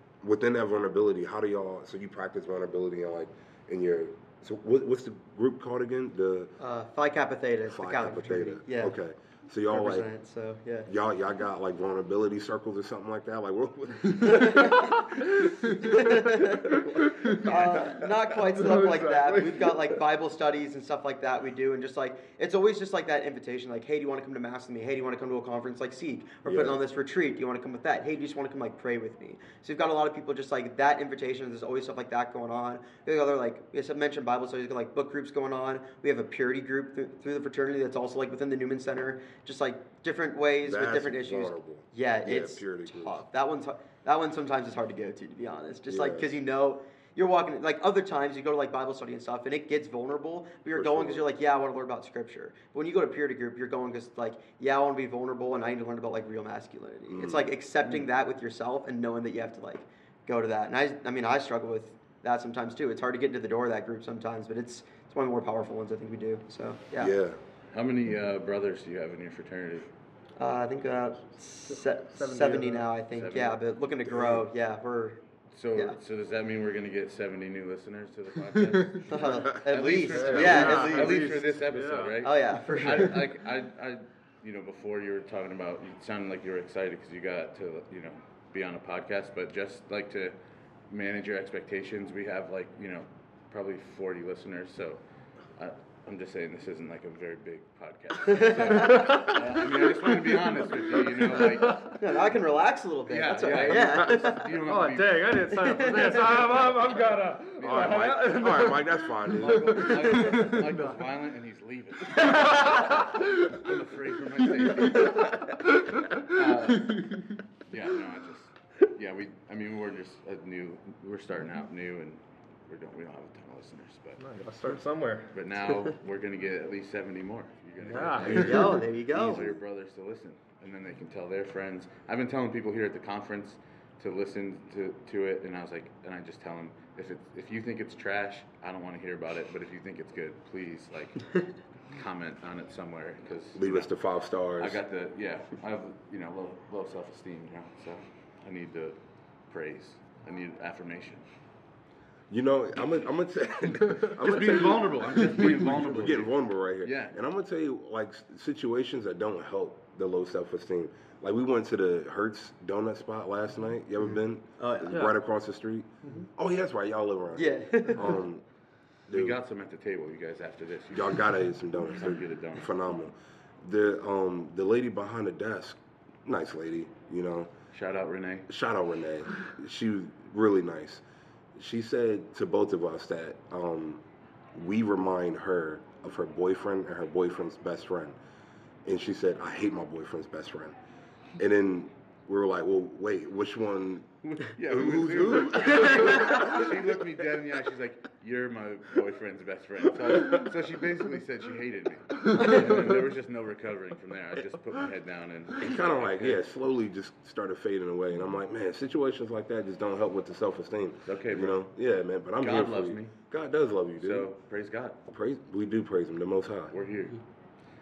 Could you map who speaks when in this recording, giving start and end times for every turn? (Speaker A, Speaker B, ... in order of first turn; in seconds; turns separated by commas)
Speaker A: 0.2-6.5, Speaker B: 6.6-8.9, Speaker A: 7.7-10.1, Speaker B: 9.7-10.9, Speaker A: 10.8-14.9, Speaker C: 14.6-19.7, Speaker B: 15.8-16.8, Speaker B: 17.3-67.1, Speaker A: 17.6-17.9, Speaker A: 26.4-26.8, Speaker A: 40.6-43.2, Speaker A: 45.9-46.3, Speaker A: 50.7-51.2, Speaker A: 57.1-57.5, Speaker A: 67.0-67.4, Speaker D: 67.7-69.9, Speaker B: 70.4-75.2, Speaker C: 72.1-72.9, Speaker D: 73.1-73.6, Speaker A: 74.1-74.4, Speaker D: 75.5-90.3, Speaker C: 78.7-79.0, Speaker B: 79.1-81.3, Speaker C: 80.1-82.3, Speaker A: 80.2-80.6, Speaker B: 82.2-83.3, Speaker D: 90.9-95.0, Speaker D: 95.5-101.9, Speaker B: 98.3-99.1, Speaker C: 98.8-99.4, Speaker C: 100.8-102.0, Speaker B: 102.0-104.5, Speaker D: 103.1-105.4, Speaker C: 103.6-110.9, Speaker B: 105.6-106.2, Speaker D: 107.6-108.7, Speaker A: 107.6-110.0, Speaker D: 109.3-124.2, Speaker C: 112.1-113.5, Speaker C: 114.9-117.3, Speaker C: 124.2-125.3, Speaker D: 125.3-143.9, Speaker C: 127.8-128.8, Speaker B: 128.0-129.5, Speaker A: 129.2-129.4, Speaker A: 143.5-144.8, Speaker D: 144.6-151.2, Speaker A: 152.3-168.4, Speaker D: 154.2-157.2, Speaker B: 164.6-165.0, Speaker B: 167.3-168.1, Speaker A: 169.1-169.4, Speaker D: 169.1-172.7, Speaker A: 170.9-177.5, Speaker D: 177.7-178.5, Speaker A: 178.5-181.0, Speaker A: 181.5-184.0, Speaker A: 184.5-188.2, Speaker A: 188.8-190.8, Speaker A: 191.4-194.1, Speaker D: 194.2-206.4, Speaker A: 194.6-196.7, Speaker A: 205.6-214.3, Speaker D: 211.1-211.7, Speaker D: 212.4-213.2, Speaker D: 214.0-215.0, Speaker A: 215.1-216.7, Speaker D: 216.7-217.2